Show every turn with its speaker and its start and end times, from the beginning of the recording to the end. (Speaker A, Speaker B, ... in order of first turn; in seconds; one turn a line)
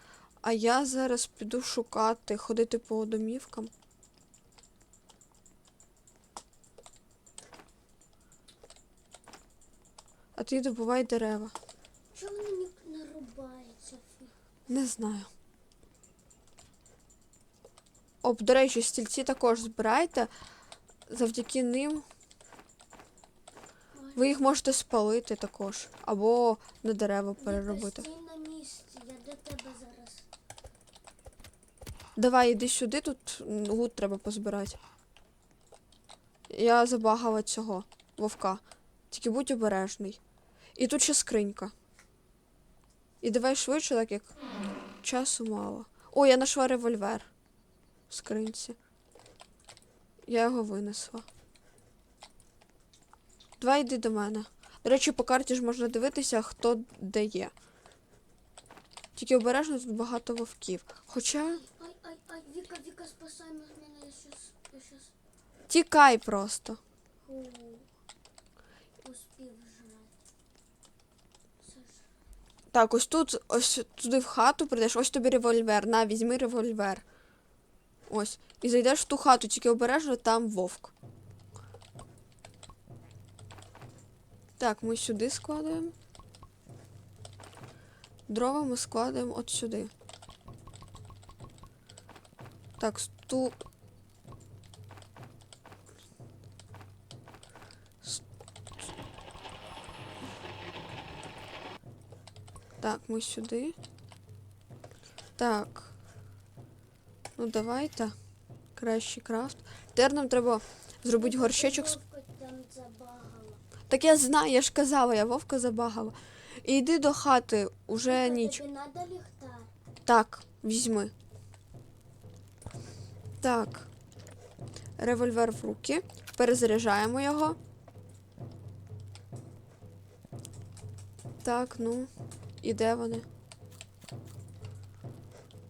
Speaker A: 0.4-3.7
Speaker A: 10.4-11.5
Speaker B: 12.1-14.3
Speaker A: 14.7-15.3
Speaker A: 18.2-20.3
Speaker A: 21.1-22.0
Speaker B: 23.9-24.6
Speaker A: 24.1-28.0
Speaker B: 27.4-30.3
Speaker A: 32.2-34.8
Speaker A: 36.5-40.2
Speaker A: 40.8-41.7
Speaker A: 43.2-44.3
Speaker A: 45.0-47.3
Speaker A: 48.1-48.8
Speaker A: 50.3-51.2
Speaker A: 53.6-57.5
Speaker A: 59.1-61.6
Speaker B: 61.4-65.1
Speaker A: 65.7-66.8
Speaker B: 67.2-67.9
Speaker B: 69.0-70.2
Speaker B: 71.6-72.1
Speaker A: 72.7-77.0
Speaker A: 78.1-80.9
Speaker A: 84.6-85.9
Speaker A: 88.3-89.9
Speaker A: 92.8-93.6
Speaker A: 102.8-103.8
Speaker A: 105.4-105.9
Speaker A: 107.4-108.1
Speaker A: 108.8-112.0
Speaker B: 111.2-113.6
Speaker A: 113.9-118.6
Speaker B: 117.9-119.7
Speaker A: 120.0-121.1
Speaker A: 123.4-123.9
Speaker A: 125.0-127.6
Speaker A: 131.4-132.1
Speaker A: 132.6-133.2